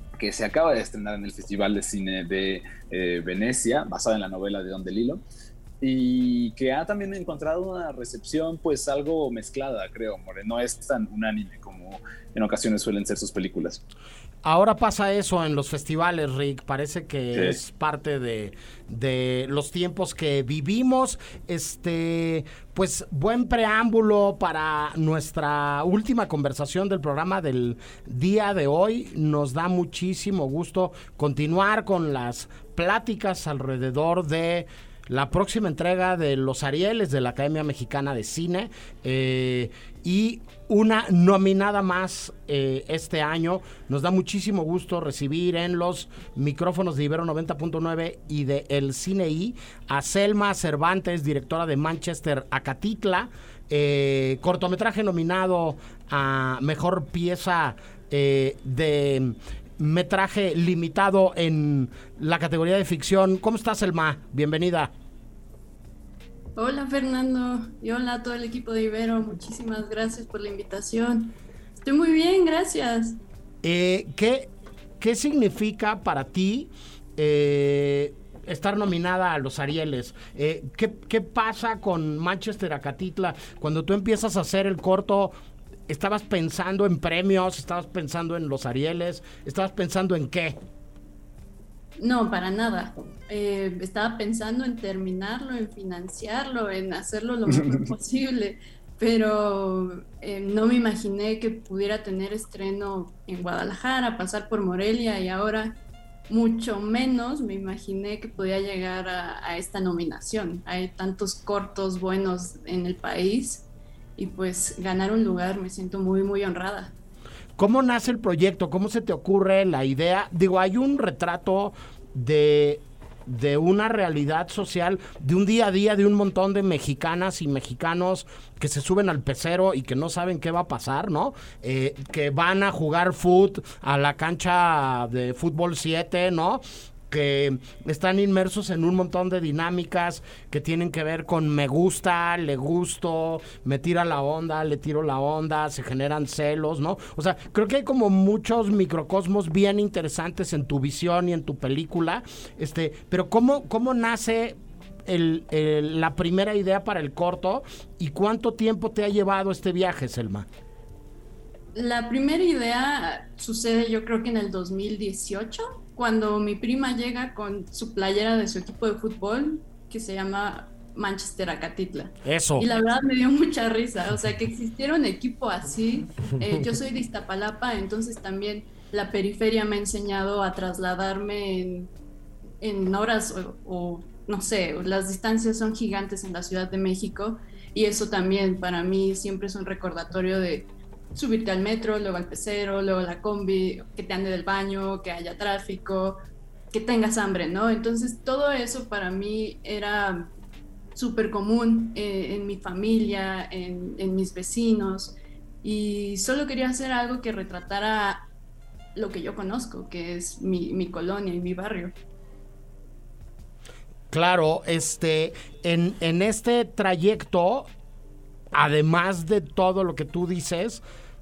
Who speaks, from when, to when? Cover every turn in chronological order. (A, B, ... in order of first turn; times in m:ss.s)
0:00.2-0:05.2 A
0:05.8-0:13.8 A
0:14.4-1:04.9 B
1:06.6-1:13.2 C
1:13.6-1:25.3 B
1:25.9-1:30.6 B
1:32.0-1:45.8 C
1:46.3-1:53.6 C
1:54.2-1:56.9 C
1:57.6-2:40.5 B
2:41.8-3:01.9 C
2:52.2-2:52.7 B
3:02.6-3:16.2 C
3:16.7-3:20.3 C
3:21.0-3:28.3 C
3:29.0-3:31.9 C
3:34.1-3:37.7 B
3:38.5-3:40.8 B